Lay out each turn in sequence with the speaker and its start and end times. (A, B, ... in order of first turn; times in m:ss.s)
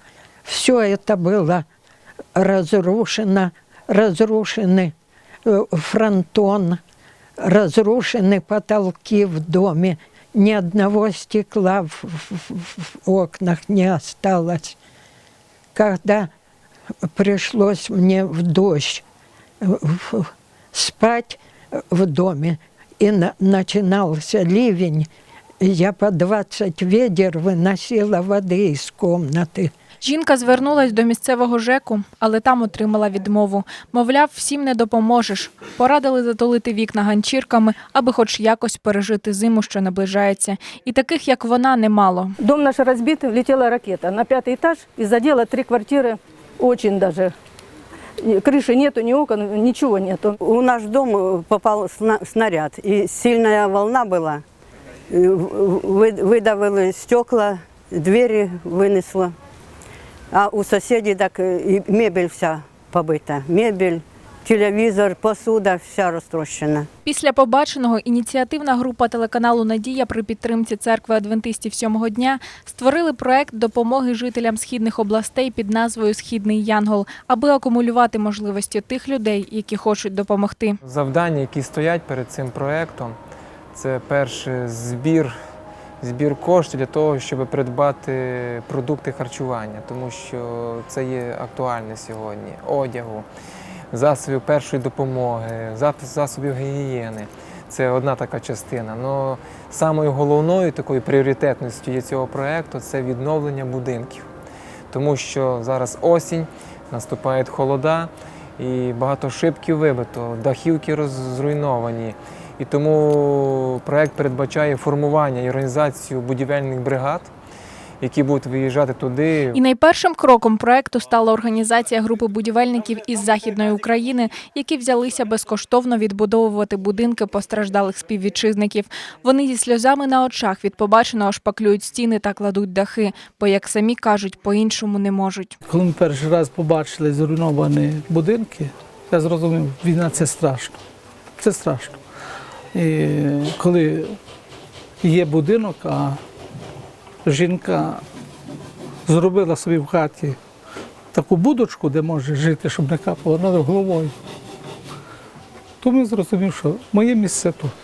0:00.4-0:01.6 A
0:02.4-0:04.9 A
0:05.4-0:06.8 A
0:07.4-0:14.8 A
0:15.7-0:16.3 A
0:17.1-0:19.0 A
0:19.6-0:21.4 A
0:21.9-0:25.1 A
0:25.6-0:29.7 A
0:30.0-0:42.3 B
0:42.4-0:47.3 C
0:48.2-0:50.3 C
0:50.4-0:54.4 D
0:55.1-0:59.3 D
1:00.3-1:06.9 D
1:07.0-1:20.8 B
1:20.8-1:23.2 E
1:23.7-1:25.3 E
1:26.0-1:33.2 E
1:33.9-1:44.2 E
1:44.9-1:57.3 E
1:58.0-1:59.6 E
1:59.5-2:15.6 B
2:15.6-2:20.8 F
2:21.4-2:22.0 F
2:22.7-2:24.2 F
2:25.0-2:26.2 F
2:27.2-2:28.0 F
2:29.0-2:30.4 F
2:31.1-2:34.1 F
2:35.8-2:37.7 F